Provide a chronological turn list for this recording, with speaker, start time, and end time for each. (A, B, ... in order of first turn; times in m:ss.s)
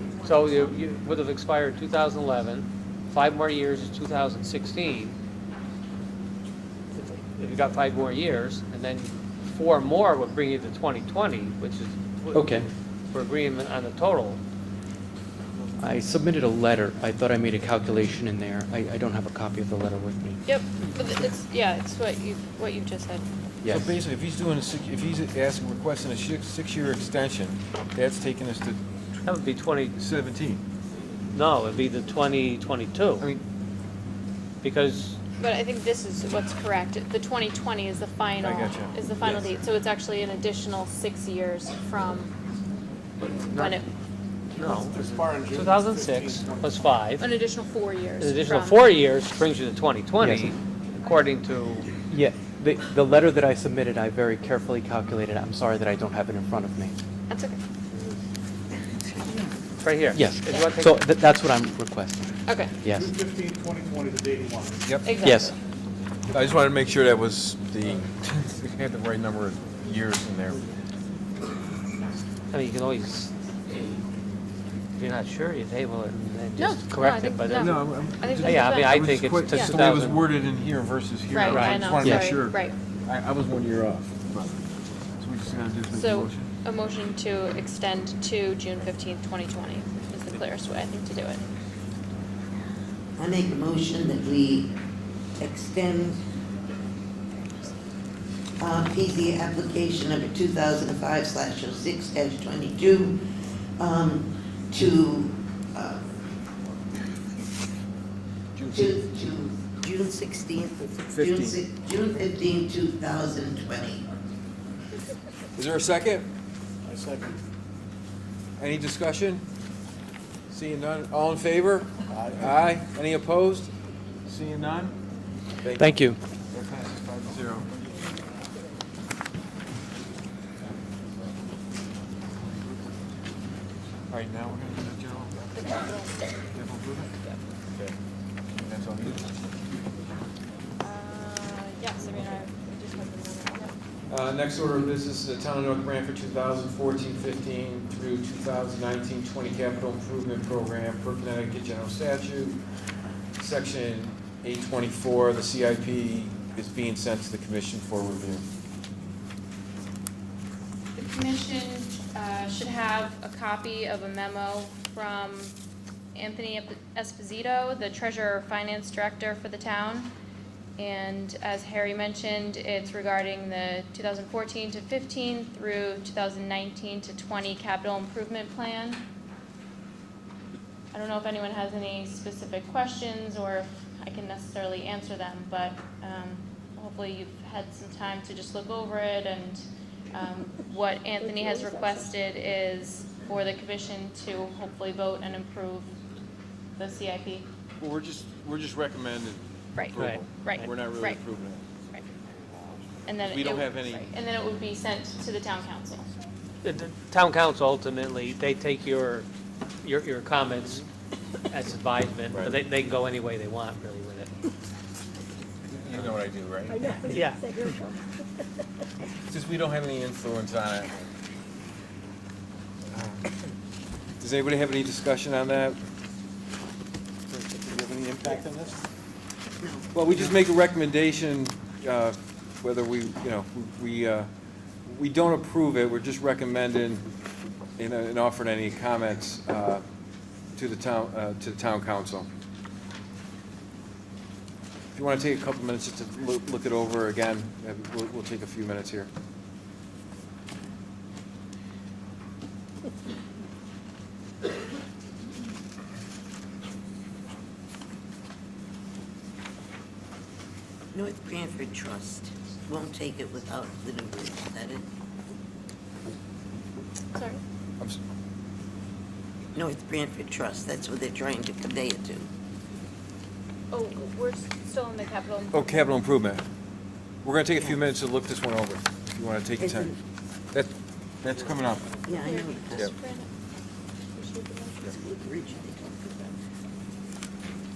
0:00.2-0:05.2 A
0:07.0-0:14.4 A
0:12.3-0:12.7 B
0:15.8-0:20.4 B
0:20.5-0:23.3 C
0:23.6-0:24.0 B
0:23.7-0:28.8 D
0:29.2-0:30.0 A
0:30.0-0:30.6 D
0:31.3-0:33.3 A
0:34.6-0:35.2 A
0:35.4-0:42.4 C
0:38.4-0:39.5 D
0:43.2-0:43.8 A
0:43.6-0:43.8 C
0:44.6-0:47.3 A
0:44.6-0:46.9 E
0:47.2-0:48.8 C
0:48.2-0:51.9 A
0:50.2-0:50.5 B
0:52.1-0:57.0 B
0:57.3-0:57.6 C
0:59.8-1:01.1 A
1:00.1-1:03.1 B
1:02.5-1:02.8 C
1:03.0-1:04.8 E
1:04.8-1:05.2 D
1:05.0-1:05.4 C
1:05.2-1:05.6 B
1:06.3-1:10.6 D
1:12.5-1:13.3 A
1:15.0-1:17.8 A
1:16.6-1:18.9 C
1:17.6-1:24.6 D
1:18.4-1:20.2 A
1:21.3-1:22.8 C
1:21.4-1:22.0 A
1:22.0-1:22.4 B
1:25.2-1:26.5 D
1:25.9-1:31.5 C
1:33.2-1:34.7 F
1:35.4-1:36.2 F
1:38.6-1:43.2 F
1:43.8-1:46.0 F
1:48.6-1:49.0 D
1:48.7-1:54.0 F
1:51.0-1:51.6 D
1:55.6-1:56.3 D
1:56.8-1:57.4 E
1:58.6-1:59.4 D
2:00.5-2:03.7 D
2:02.1-2:02.6 E
2:04.3-2:05.0 D
2:05.6-2:05.9 D
2:05.8-2:06.2 B
2:06.5-2:07.7 D
2:14.1-2:15.4 D
2:15.5-2:16.3 C
2:16.5-2:17.1 D
2:18.6-2:19.3 D
2:20.8-2:23.7 C
2:24.1-2:32.6 D
2:33.4-2:38.4 D
2:41.0-2:45.6 C
2:46.2-2:50.2 C
2:50.8-2:59.1 C
3:00.9-3:16.0 C
3:16.8-3:17.5 C
3:17.8-3:21.8 D
3:19.8-3:21.2 C
3:20.0-3:20.8 A
3:23.1-3:26.1 C
3:23.2-3:24.1 D
3:26.6-3:29.3 A
3:29.8-3:30.9 A
3:31.5-3:34.3 A
3:32.3-3:32.6 D
3:35.7-3:37.0 D
3:37.1-3:37.7 A
3:39.3-3:41.0 D
3:42.9-3:43.3 D
3:44.2-3:45.8 D
3:47.3-3:48.8 D
3:49.6-3:49.9 F
3:49.9-3:54.3 D
3:54.8-3:57.1 D
3:57.8-3:59.8 D
4:00.6-4:02.3 D
4:04.9-4:09.1 D
4:20.9-4:24.9 F
4:27.2-4:27.4 C
4:29.6-4:32.3 F
4:33.7-4:35.6 C
4:35.5-4:36.4 D
4:37.2-4:39.9 D
4:39.6-4:40.0 F
4:40.5-4:42.0 D
4:42.0-4:43.0 F
4:42.2-4:43.3 C
4:44.2-4:44.8 C
4:44.8-4:46.3 F